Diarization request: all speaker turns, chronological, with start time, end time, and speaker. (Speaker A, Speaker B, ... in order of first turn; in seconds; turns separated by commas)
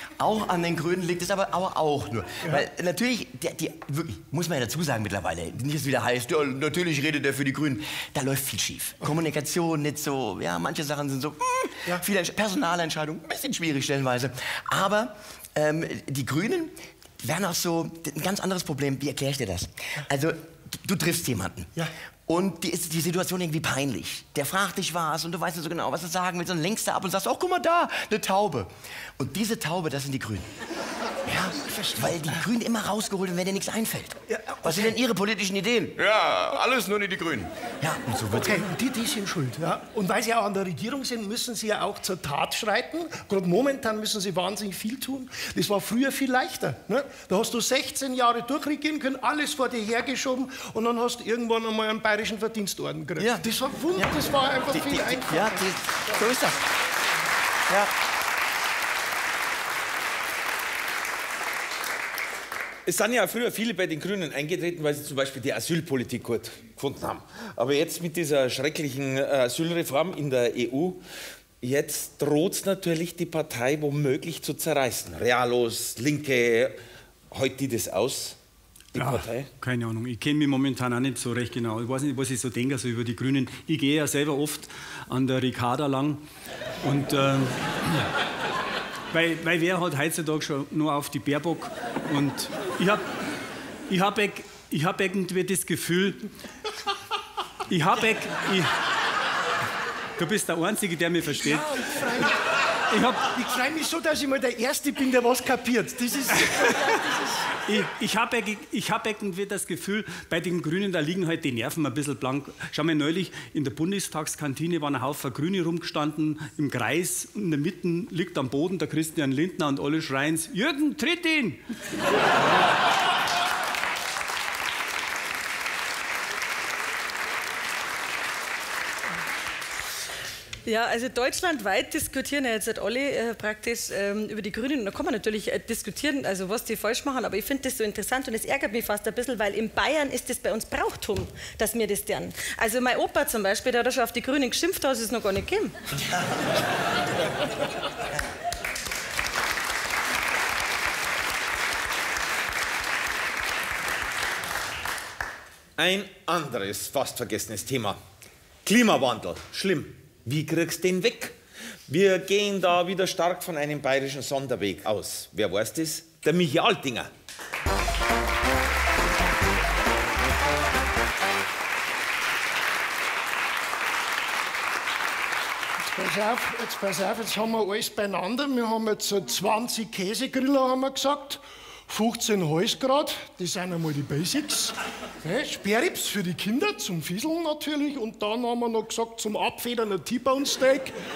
Speaker A: 0.2-21.7, Speaker A: 22.3-30.5, Speaker A: 31.3-38.7, Speaker B: 31.6-32.1, Speaker B: 34.3-34.9, Speaker B: 38.3-56.2, Speaker A: 53.2-56.7, Speaker A: 57.7-57.9, Speaker C: 62.9-71.0, Speaker C: 71.6-76.8, Speaker C: 77.3-78.4, Speaker C: 78.9-79.5, Speaker D: 79.0-86.2, Speaker D: 86.8-88.1, Speaker D: 89.1-93.0, Speaker D: 93.9-96.3, Speaker D: 97.7-98.7, Speaker D: 100.2-101.7, Speaker B: 101.4-102.4, Speaker D: 102.9-103.3, Speaker B: 103.2-107.2, Speaker D: 107.7-121.6, Speaker E: 130.7-145.8, Speaker C: 155.8-158.0, Speaker C: 158.7-161.4, Speaker C: 161.9-167.1, Speaker B: 175.9-190.9